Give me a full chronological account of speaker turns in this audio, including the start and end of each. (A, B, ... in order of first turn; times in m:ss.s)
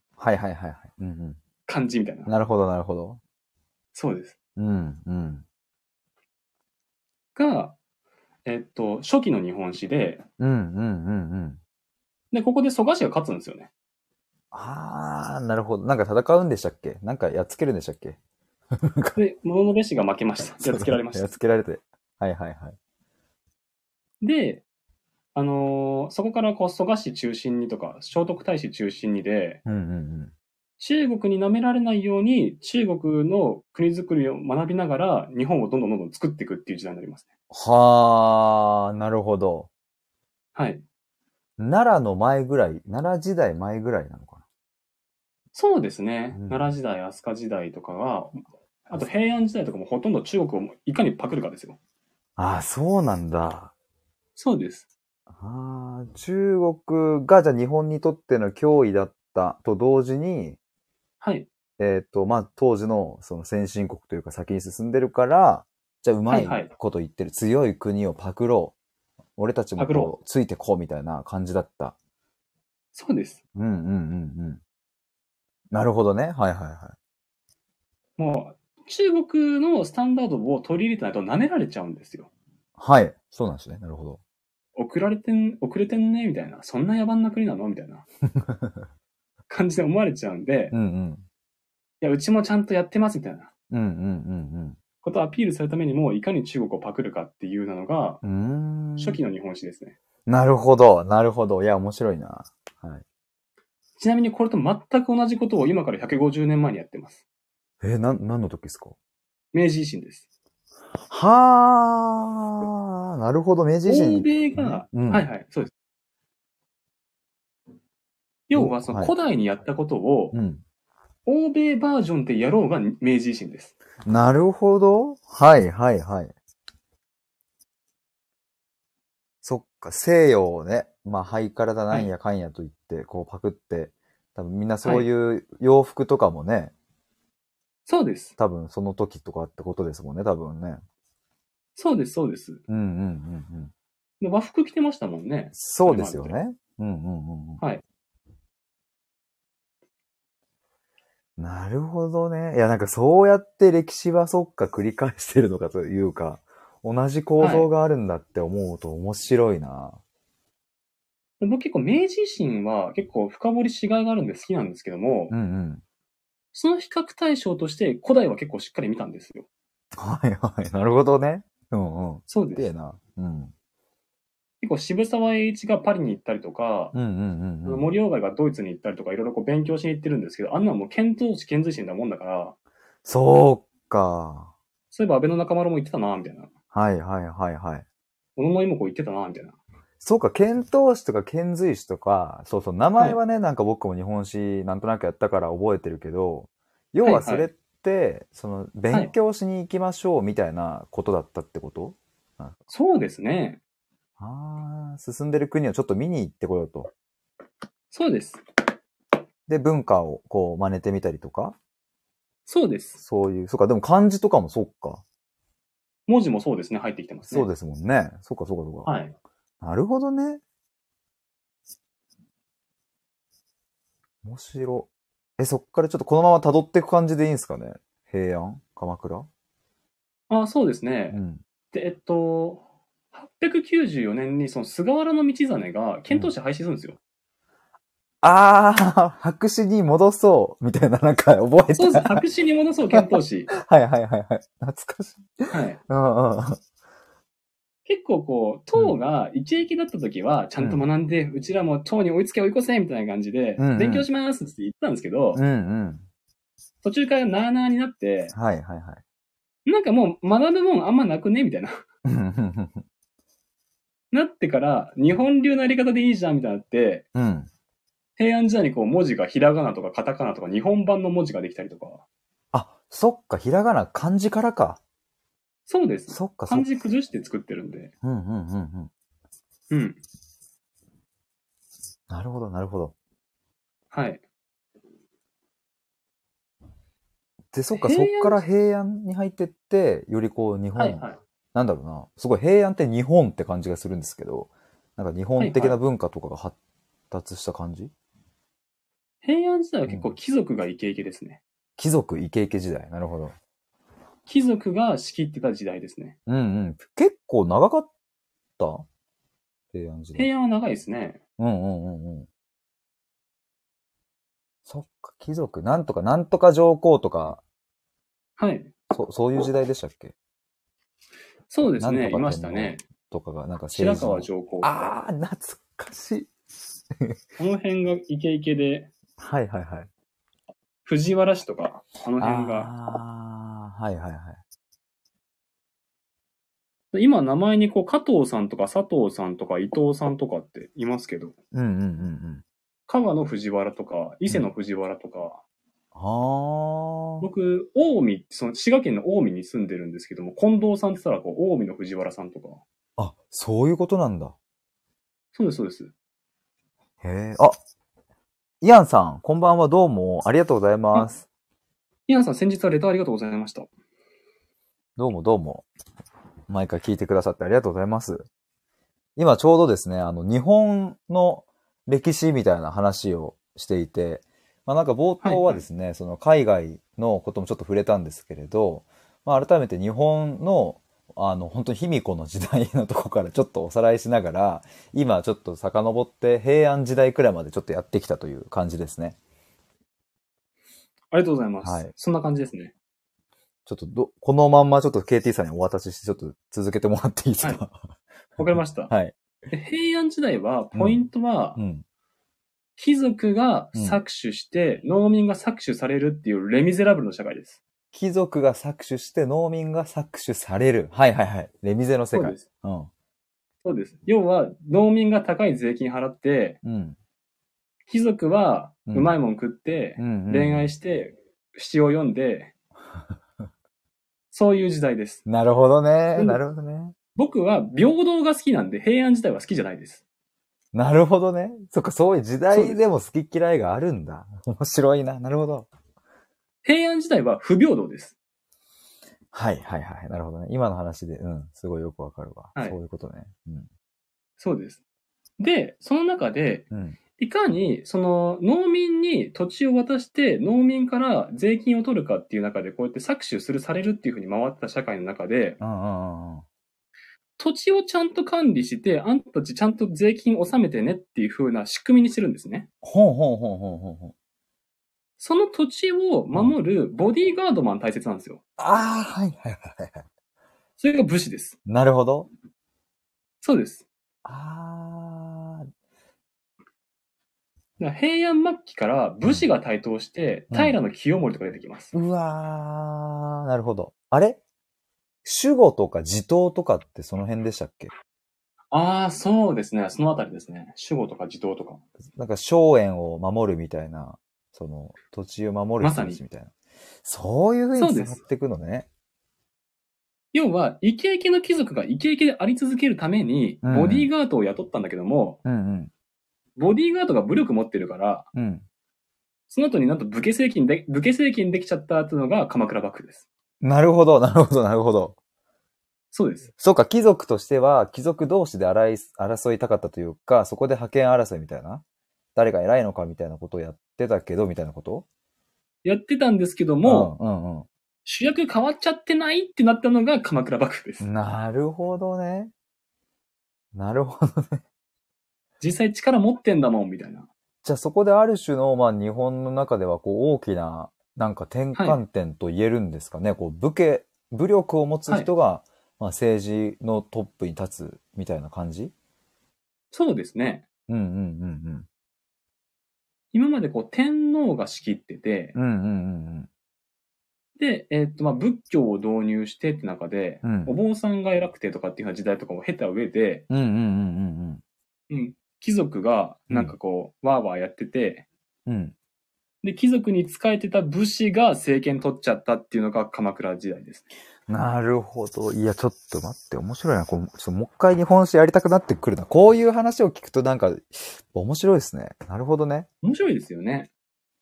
0:00.2-0:01.4 A
0:01.7-0:02.3 B
0:02.3-0:03.2 A
0:03.9-0:04.4 B
0:04.6-0:05.4 A
0:07.4-0:07.8 B
0:08.5-0:10.2 B
0:10.4-0:11.6 A
0:12.3-0:13.7 B
0:14.5-0:18.2 A
0:18.7-0:19.2 A
0:19.2-0:21.3 B
0:20.6-0:22.8 A
0:24.2-0:24.6 B
0:25.4-0:29.6 B
0:29.6-0:30.3 A
0:30.8-0:37.3 B
0:37.5-0:39.7 A
0:40.6-0:40.8 B
0:41.6-0:44.4 A
0:45.5-0:51.8 B
0:46.3-0:46.6 A
0:52.4-0:53.7 A
0:54.4-0:54.9 B
0:55.3-1:00.6 A
1:01.2-1:01.5 B
1:01.8-1:08.8 A
1:06.3-1:06.7 B
1:09.4-1:12.0 A
1:09.8-1:10.1 B
1:12.9-1:13.4 B
1:13.6-1:14.6 A
1:15.7-1:17.0 A
1:18.2-1:22.3 B
1:22.8-1:24.2 A
1:24.8-1:28.0 B
1:28.3-1:28.9 A
1:29.5-1:30.7 B
1:30.7-1:31.2 A
1:32.0-1:33.5 B
1:33.7-1:34.8 A
1:35.0-1:38.2 B
1:38.2-1:39.2 A
1:39.0-1:40.0 B
1:40.3-1:43.0 A
1:44.0-1:47.2 B
1:47.8-1:49.0 A
1:49.5-1:50.2 B
1:51.0-1:55.3 A
1:53.9-1:55.7 B
1:58.5-2:00.4 B
1:58.6-1:59.1 A
2:00.3-2:00.6 A
2:01.3-2:03.7 B
2:04.0-2:06.3 A
2:09.4-2:16.7 A
2:17.9-2:18.3 B
2:18.4-2:20.8 A
2:21.8-2:22.6 B
2:22.7-2:23.7 A
2:24.2-2:26.4 B
2:25.5-2:27.6 A
2:31.4-2:40.0 A
2:37.4-2:37.7 B
2:41.4-2:45.3 B
2:45.3-2:45.8 A
2:46.5-2:49.5 B
2:50.0-2:53.5 A
2:52.3-2:52.7 B
2:54.6-2:56.9 B
2:56.9-2:57.9 A
2:57.6-3:02.6 B
3:03.0-3:04.5 A
3:04.9-3:06.5 B
3:06.7-3:07.8 A
3:08.4-3:09.6 B
3:10.0-3:22.6 A
3:17.0-3:17.5 B
3:22.7-3:23.6 B
3:24.2-3:26.9 A
3:27.9-3:28.4 B
3:29.5-3:31.6 A
3:32.5-3:33.0 B
3:33.0-3:35.0 A
3:36.1-3:37.5 B
3:37.3-3:38.9 A
3:38.9-3:39.2 B
3:39.6-3:40.4 A
3:44.2-3:49.3 A
3:50.3-3:51.2 B
3:51.1-3:51.4 A
3:51.7-3:52.6 B
3:53.1-3:57.0 B
3:58.2-4:02.2 A
4:01.7-4:03.5 B
4:02.9-4:06.6 A
4:05.5-4:05.8 B
4:07.9-4:15.4 B
4:10.6-4:10.8 A
4:13.6-4:14.1 A
4:15.4-4:16.0 A
4:16.8-4:18.3 B
4:18.3-4:19.0 A
4:19.7-4:21.8 B
4:22.0-4:22.8 A
4:24.1-4:27.0 B
4:27.1-4:27.5 A
4:28.2-4:32.0 B
4:32.5-4:34.8 A
4:35.7-4:37.9 B
4:36.1-4:36.7 A
4:38.0-4:38.9 A
4:39.7-4:40.0 B
4:42.1-4:42.9 A
4:43.9-4:44.2 B
4:47.5-4:51.0 A
4:47.7-4:48.4 B
4:50.8-4:51.2 B
4:51.5-4:56.6 A
4:55.4-4:55.8 B
4:57.1-4:57.9 A
4:59.2-5:01.4 B
4:59.9-5:00.1 A
5:01.8-5:03.3 A
5:04.3-5:06.2 B
5:06.3-5:07.9 A
5:08.6-5:08.8 A
5:09.7-5:10.3 A
5:10.2-5:11.2 B
5:11.4-5:12.3 A
5:14.7-5:17.4 A
5:18.4-5:18.7 B
5:18.9-5:20.1 A
5:21.5-5:22.8 B
5:21.8-5:26.3 A
5:23.7-5:24.8 B
5:27.4-5:28.9 B
5:29.2-5:29.9 A
5:30.8-5:32.7 B
5:32.2-5:34.4 A
5:36.9-5:41.3 B
5:41.5-5:42.4 A
5:42.9-5:45.4 B
5:46.0-5:47.3 A
5:47.2-5:52.6 B
5:53.0-5:54.4 A
5:55.3-5:55.9 B
5:57.0-5:57.6 A
5:58.6-6:01.3 A
6:02.1-6:03.7 B
6:05.0-6:05.7 A
6:06.5-6:08.3 A
6:09.2-6:29.2 A
6:15.2-6:15.6 B
6:31.1-6:32.7 B
6:31.6-6:31.9 A
6:33.7-6:37.8 A
6:38.4-6:38.9 B
6:38.9-6:39.2 A
6:39.5-6:41.6 B
6:40.7-6:41.0 A
6:41.6-6:41.8 A
6:42.8-6:47.6 B
6:43.8-6:44.0 A
6:47.9-6:52.9 A
6:52.1-6:52.4 B
6:53.6-6:56.6 B
6:56.6-6:57.0 A
6:57.9-7:02.5 B
6:58.9-6:59.2 A
7:00.0-7:00.7 A
7:04.3-7:05.2 B
7:05.3-7:06.9 A
7:06.2-7:06.4 B
7:07.2-7:10.0 B
7:10.7-7:15.7 A
7:12.5-7:12.8 B
7:16.6-7:18.2 B
7:19.3-7:23.7 A
7:24.4-7:24.8 B
7:25.4-7:26.7 B
7:26.7-7:27.0 A
7:27.2-7:35.6 B
7:35.6-7:36.4 A
7:37.4-7:42.7 B
7:42.8-7:44.1 A
7:45.2-7:48.4 B
7:48.6-7:50.0 A
7:50.8-7:51.6 B
7:51.7-7:52.3 A
7:53.4-7:53.8 B
7:54.2-7:55.7 A
7:57.8-8:01.9 B
8:00.5-8:00.8 A
8:01.9-8:04.4 A
8:05.2-8:07.9 A
8:08.7-8:11.8 B
8:12.2-8:16.5 A
8:15.8-8:16.2 B
8:17.0-8:18.9 A
8:17.8-8:18.2 B
8:20.3-8:25.4 B
8:23.6-8:24.1 A
8:25.4-8:25.9 A
8:26.6-8:28.3 B
8:28.3-8:28.6 A
8:29.5-8:33.3 B
8:33.6-8:35.2 A
8:36.1-8:36.5 B
8:36.6-8:41.8 A
8:42.4-8:45.1 A
8:45.8-8:47.1 B
8:46.8-8:47.7 A
8:48.0-8:51.1 B
8:51.0-8:52.5 A
8:53.7-8:54.6 A
8:55.6-8:57.3 B
8:57.6-9:08.9 A
9:09.9-9:10.7 B
9:10.9-9:11.9 A
9:13.3-9:15.5 B
9:15.6-9:16.5 A
9:17.6-9:23.4 B
9:20.4-9:20.8 A
9:23.5-9:24.6 A
9:25.1-9:28.3 B
9:28.7-9:29.0 A
9:29.6-9:34.1 B
9:34.5-9:42.9 A
9:43.0-9:43.9 B